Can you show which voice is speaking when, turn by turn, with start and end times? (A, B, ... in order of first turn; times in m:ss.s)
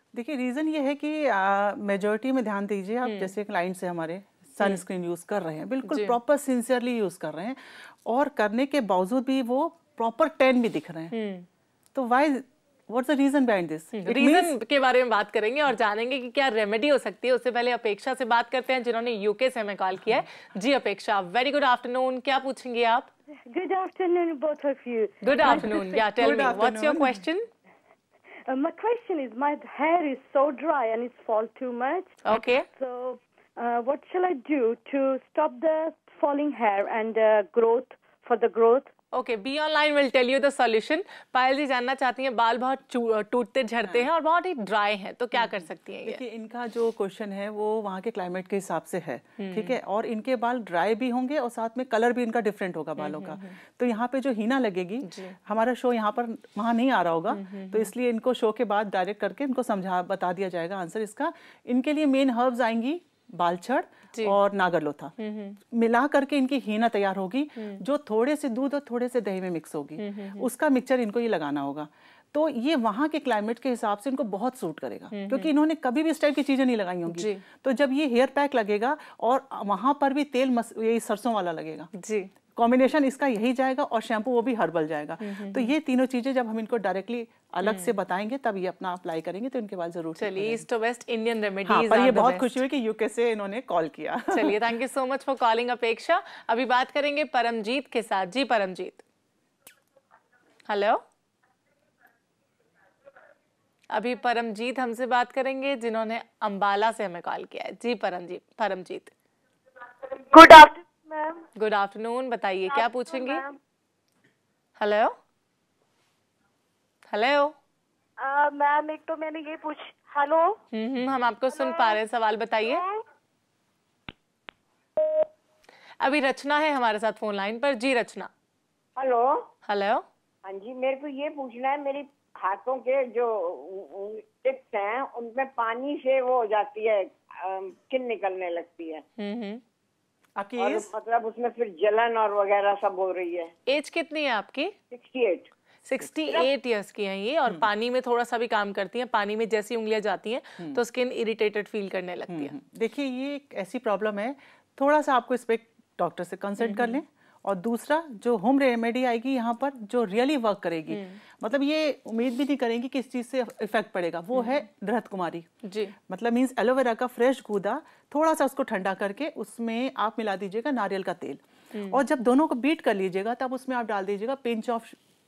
0:00.1-0:11.1 A
0:03.0-0:03.3 B
0:05.8-0:06.2 B
0:11.1-0:11.4 B
0:11.9-0:14.6 A
0:13.9-0:23.1 B
0:23.5-0:25.9 C
0:25.2-0:27.5 B
0:25.4-0:27.2 A
0:28.5-0:38.9 C
0:32.2-0:32.6 B
0:39.1-0:46.2 B
0:43.8-0:44.1 A
0:45.3-1:05.1 A
0:49.4-0:49.8 B
0:53.0-0:53.5 B
0:55.0-0:55.4 B
0:57.3-0:57.9 B
1:05.2-1:05.6 B
1:05.7-1:21.9 A
1:10.0-1:10.5 B
1:15.1-1:15.5 B
1:17.1-1:17.4 B
1:21.9-1:22.3 B
1:22.6-1:30.6 A
1:25.2-1:25.7 B
1:27.6-1:27.9 B
1:30.2-1:32.6 B
1:31.6-1:34.6 A
1:34.3-1:39.0 B
1:40.7-1:41.0 B
1:43.9-1:49.1 B
1:50.3-1:51.4 D
1:51.6-1:53.4 B
1:52.7-1:53.5 D
1:54.8-1:55.1 B
1:57.1-1:57.5 B
1:58.2-2:00.6 D
2:00.7-2:02.8 B
2:01.5-2:01.9 D
2:02.6-2:03.0 D
2:06.0-2:08.3 B
2:09.0-2:09.4 E
2:09.6-2:10.0 B
2:10.4-2:19.0 E
2:19.2-2:19.6 B
2:20.4-2:20.9 A
2:20.6-2:23.5 E
2:23.7-2:24.7 B
2:24.9-2:25.5 E
2:25.8-2:32.5 B
2:32.3-2:45.5 A
2:36.6-2:37.0 B
2:40.9-2:41.2 B
2:45.6-2:45.9 B
2:46.1-2:55.0 A
2:51.7-2:52.0 B